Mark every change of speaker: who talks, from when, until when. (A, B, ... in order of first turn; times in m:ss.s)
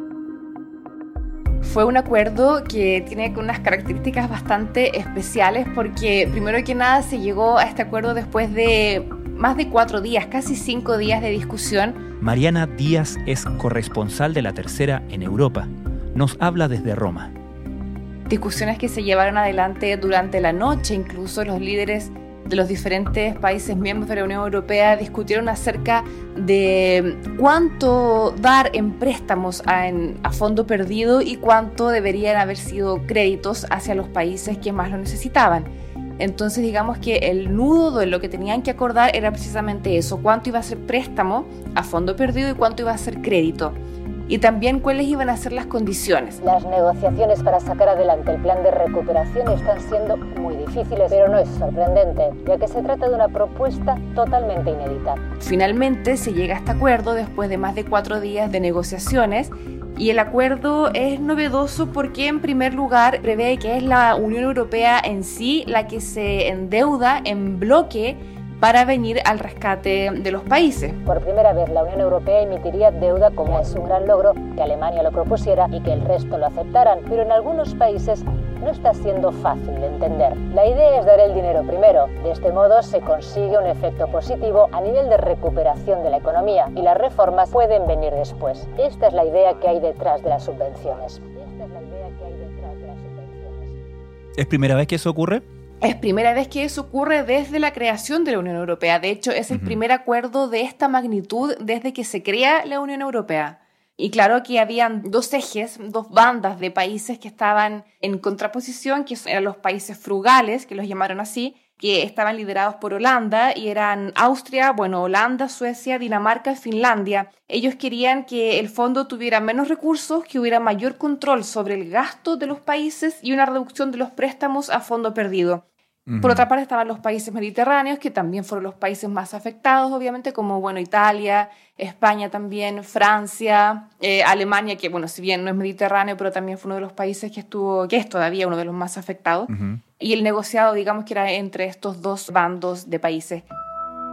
0:01.6-0:12.0 A
0:12.2-0:17.3 B
0:18.3-0:46.4 A
0:46.4-0:55.2 C
0:55.4-1:11.0 A
1:11.0-1:33.7 C
1:34.4-1:35.4 B
1:35.8-2:05.6 A
2:06.1-2:06.4 B
2:06.2-2:23.5 A
2:19.5-2:19.8 B